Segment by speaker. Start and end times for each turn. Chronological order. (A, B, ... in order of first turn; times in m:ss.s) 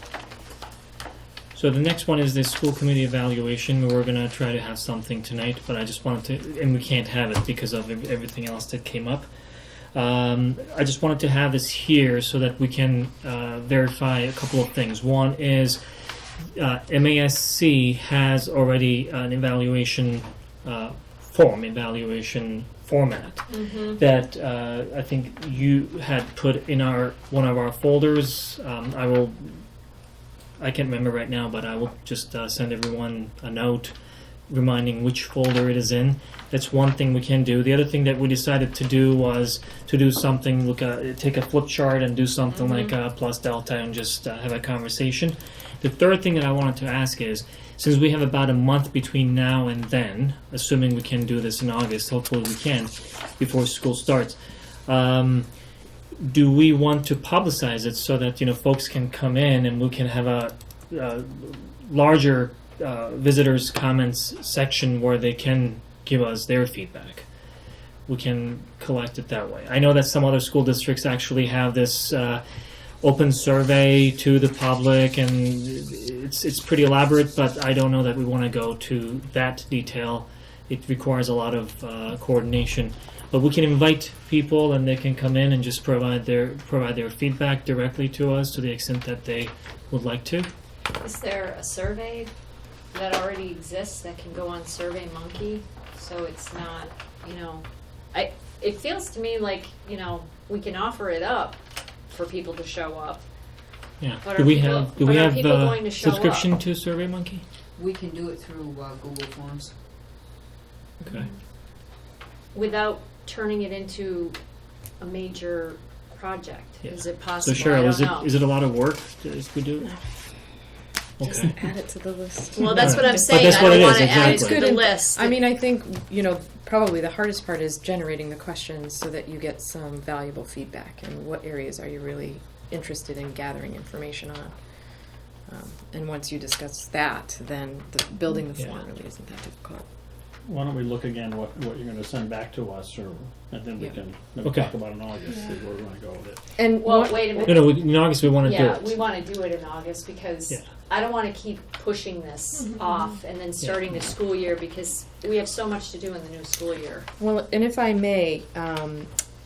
0:01.5-0:09.3 A
0:09.9-0:15.8 A
0:16.5-0:29.6 A
0:23.5-0:24.0 B
0:30.6-0:33.9 A
0:34.5-0:55.5 A
0:42.5-0:42.9 B
0:56.2-1:07.3 A
1:08.1-1:12.4 A
1:13.0-1:30.5 A
1:31.0-1:32.3 B
1:32.9-1:43.2 B
1:44.0-1:47.4 A
1:44.2-1:46.5 B
1:47.8-1:49.7 C
1:51.0-1:51.3 A
1:52.5-1:54.4 B
1:55.0-1:58.3 B
1:56.8-1:59.9 A
2:01.2-2:01.6 A
2:01.2-2:14.5 D
2:02.5-2:05.4 B
2:02.8-2:04.7 A
2:15.5-2:19.8 D
2:20.4-2:26.4 E
2:24.4-2:24.7 A
2:26.6-2:27.7 D
2:26.8-2:27.8 B
2:27.4-2:29.0 A
2:28.4-2:37.1 B
2:37.2-2:39.1 D